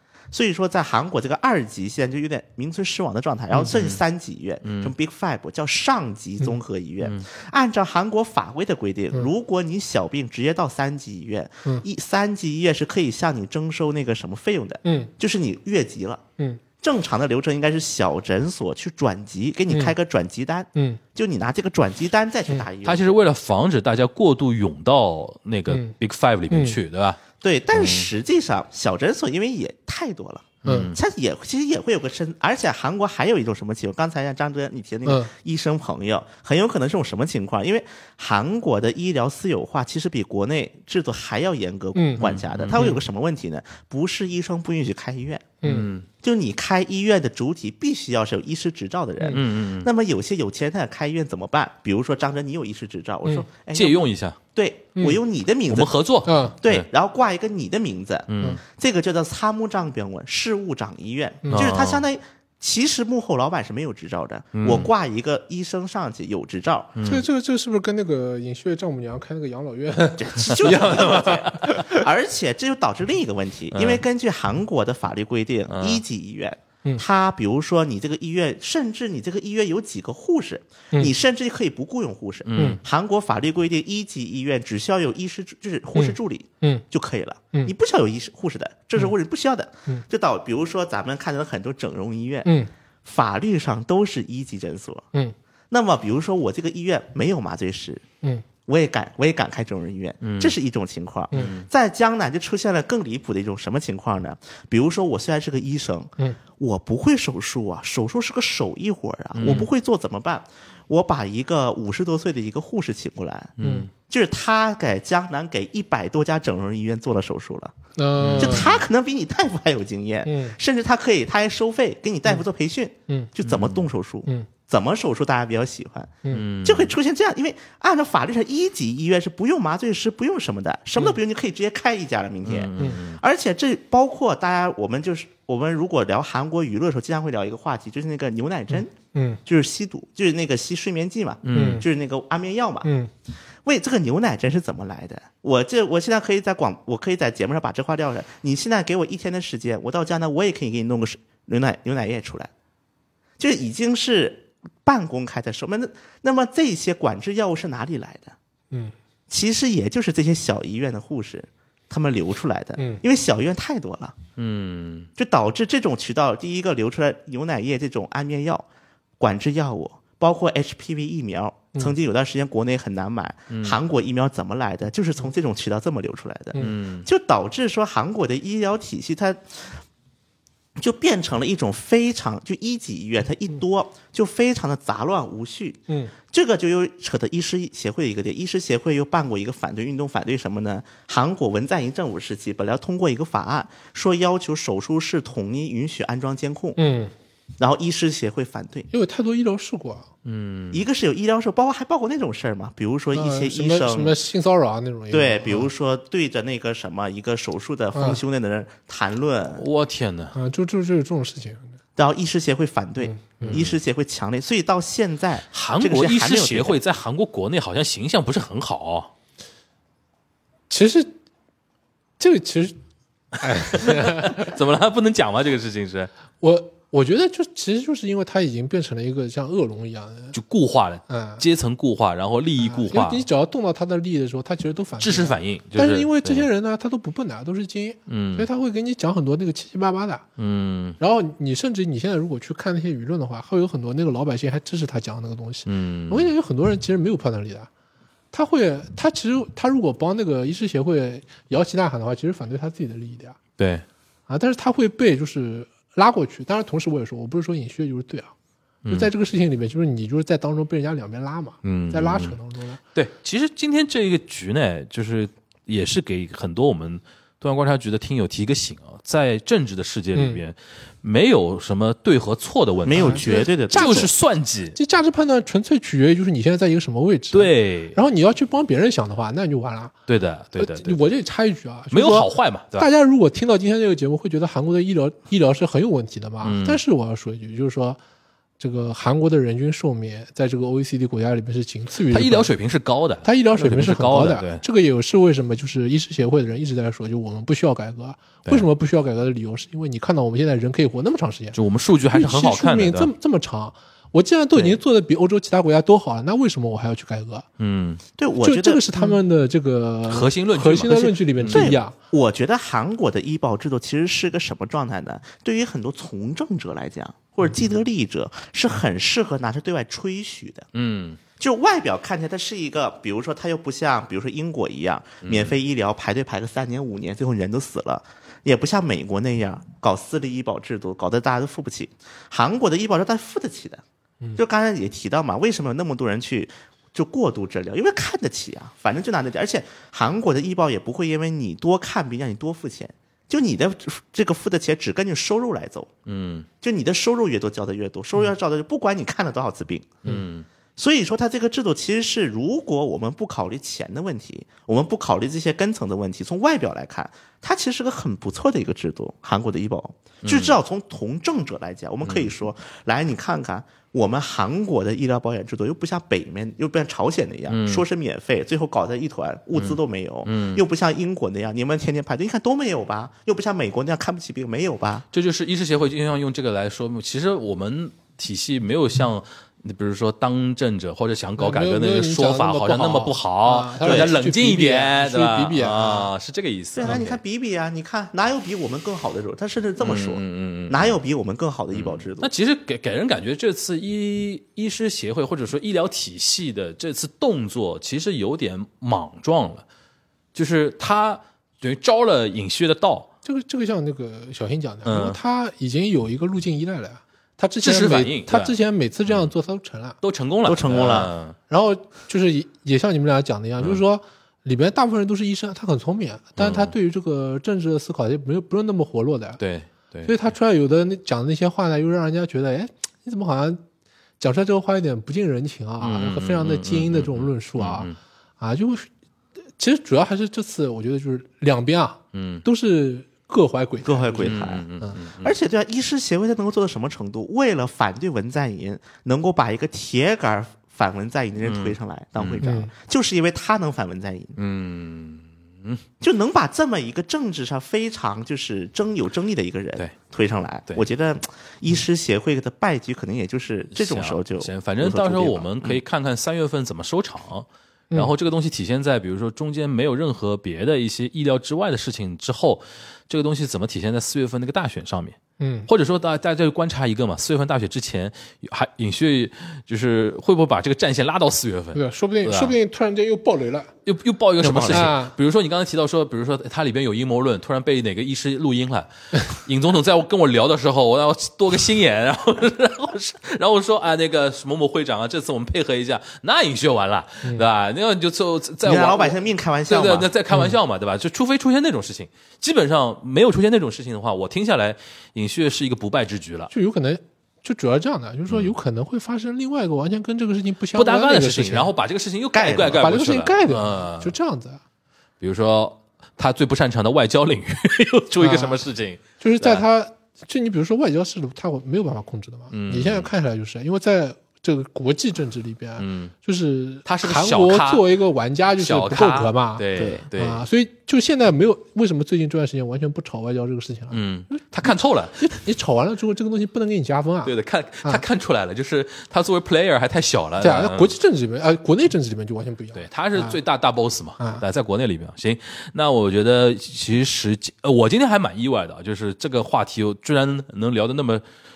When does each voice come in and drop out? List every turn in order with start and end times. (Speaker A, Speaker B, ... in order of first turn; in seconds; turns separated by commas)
Speaker A: 0.3-16.2, Speaker B: 3.6-4.0, Speaker B: 4.6-4.9, Speaker C: 14.8-15.1, Speaker A: 16.8-23.2, Speaker C: 20.8-21.0, Speaker B: 22.8-27.2, Speaker C: 25.7-25.9, Speaker C: 26.5-26.8, Speaker A: 27.4-45.6, Speaker B: 27.7-28.1, Speaker B: 30.6-31.0, Speaker C: 30.6-30.9, Speaker C: 35.0-35.3, Speaker C: 42.0-42.2, Speaker B: 42.2-43.0, Speaker C: 45.6-45.9, Speaker B: 45.6-46.1, Speaker A: 46.2-55.9, Speaker B: 49.3-49.9, Speaker B: 53.7-54.4, Speaker B: 55.7-56.9, Speaker C: 56.2-56.6, Speaker A: 56.6-67.0, Speaker B: 58.3-58.6, Speaker C: 61.4-61.7, Speaker B: 61.5-62.0, Speaker B: 64.5-64.9, Speaker B: 67.0-67.2, Speaker C: 67.0-71.8, Speaker A: 70.2-92.5, Speaker B: 70.5-71.6, Speaker B: 73.7-74.0, Speaker B: 75.7-76.0, Speaker B: 82.5-82.8, Speaker C: 86.0-86.8, Speaker C: 92.5-92.7, Speaker A: 93.0-95.1, Speaker A: 95.7-98.0, Speaker A: 98.7-113.5, Speaker B: 100.2-100.5, Speaker B: 101.3-101.7, Speaker B: 109.4-109.7, Speaker B: 113.6-113.9, Speaker C: 113.6-113.9, Speaker A: 114.1-117.7, Speaker C: 118.0-118.7, Speaker B: 118.2-118.8, Speaker A: 118.4-138.9, Speaker C: 120.2-120.6, Speaker B: 123.5-123.8, Speaker B: 126.3-126.9, Speaker B: 132.5-133.2, Speaker C: 139.1-139.4, Speaker A: 139.4-142.9, Speaker B: 141.4-141.8, Speaker C: 141.5-141.9, Speaker C: 142.8-143.1, Speaker A: 143.6-152.5, Speaker A: 153.4-158.3, Speaker A: 159.3-164.2, Speaker B: 164.4-165.1, Speaker A: 165.2-168.7, Speaker A: 169.2-179.8, Speaker B: 173.5-173.8, Speaker B: 176.6-177.1, Speaker A: 180.8-196.8, Speaker C: 196.8-197.1, Speaker A: 197.6-198.9, Speaker C: 198.9-200.1, Speaker B: 200.2-200.8, Speaker A: 200.7-204.2, Speaker C: 203.1-205.7, Speaker A: 205.1-209.7, Speaker C: 207.9-208.2, Speaker B: 209.6-210.3, Speaker C: 210.3-211.8, Speaker A: 212.0-216.8, Speaker C: 213.0-213.6, Speaker B: 213.4-213.8, Speaker B: 215.5-219.1, Speaker C: 220.7-221.1, Speaker C: 222.2-222.8, Speaker C: 223.4-224.5, Speaker B: 223.7-226.1, Speaker C: 226.4-230.3, Speaker B: 230.3-233.2, Speaker C: 231.1-231.4, Speaker C: 232.6-240.2, Speaker B: 235.0-236.5, Speaker B: 238.1-238.5, Speaker B: 240.4-241.0, Speaker C: 241.0-247.7, Speaker B: 245.7-246.3, Speaker C: 248.3-253.4, Speaker B: 253.6-253.8, Speaker C: 254.3-258.3, Speaker B: 258.9-259.1, Speaker C: 258.9-262.8, Speaker B: 261.6-262.4, Speaker B: 262.9-274.8, Speaker C: 270.1-270.4, Speaker A: 272.9-274.1, Speaker C: 273.0-274.1, Speaker C: 274.7-279.9, Speaker B: 277.3-278.0, Speaker B: 280.1-281.0, Speaker C: 280.6-288.0, Speaker B: 281.9-282.9, Speaker B: 286.4-286.8, Speaker C: 288.6-292.5, Speaker B: 292.1-294.6, Speaker C: 293.2-301.6, Speaker B: 301.6-303.1, Speaker C: 302.1-307.4, Speaker B: 307.6-308.0, Speaker A: 308.2-308.9, Speaker C: 308.4-311.9, Speaker B: 310.1-311.8, Speaker A: 311.5-320.7, Speaker B: 320.7-321.2, Speaker A: 321.4-333.8, Speaker B: 325.2-325.6, Speaker A: 334.4-345.9, Speaker B: 346.1-346.5, Speaker A: 346.6-350.0, Speaker B: 350.1-350.5, Speaker A: 350.8-375.1, Speaker B: 360.2-360.5, Speaker B: 362.1-362.3, Speaker B: 367.5-367.8, Speaker B: 369.6-370.6, Speaker B: 375.1-387.2, Speaker C: 381.4-386.1, Speaker A: 383.8-384.1, Speaker A: 386.8-392.3, Speaker B: 389.8-390.9, Speaker B: 391.7-399.6, Speaker B: 400.4-403.1, Speaker C: 403.2-410.0, Speaker B: 404.9-405.2, Speaker B: 407.6-408.5, Speaker B: 410.0-411.4, Speaker A: 410.4-411.1, Speaker C: 411.5-419.4, Speaker B: 416.4-416.7, Speaker B: 419.4-420.1, Speaker C: 420.1-423.6, Speaker C: 424.2-428.9, Speaker B: 425.8-427.9, Speaker C: 429.6-435.0, Speaker B: 432.1-432.4, Speaker A: 433.8-444.4, Speaker B: 434.2-435.3, Speaker B: 441.4-442.4, Speaker C: 442.4-442.7, Speaker B: 444.4-445.8, Speaker A: 446.0-455.8, Speaker B: 453.7-465.2, Speaker C: 465.4-465.7, Speaker B: 465.7-472.5, Speaker C: 471.7-473.7, Speaker B: 473.9-496.5, Speaker A: 474.4-474.9, Speaker C: 474.6-475.1, Speaker A: 488.6-490.1, Speaker C: 496.5-501.7, Speaker B: 500.7-504.1, Speaker A: 502.3-502.8, Speaker C: 502.6-504.6, Speaker B: 505.2-509.6, Speaker C: 508.2-508.6, Speaker C: 509.2-527.3, Speaker B: 512.5-513.1, Speaker B: 515.8-516.1, Speaker B: 516.9-517.9, Speaker B: 518.6-520.4, Speaker A: 519.8-520.0, Speaker B: 523.9-525.2, Speaker B: 527.2-531.0, Speaker C: 530.4-533.4, Speaker B: 532.8-541.2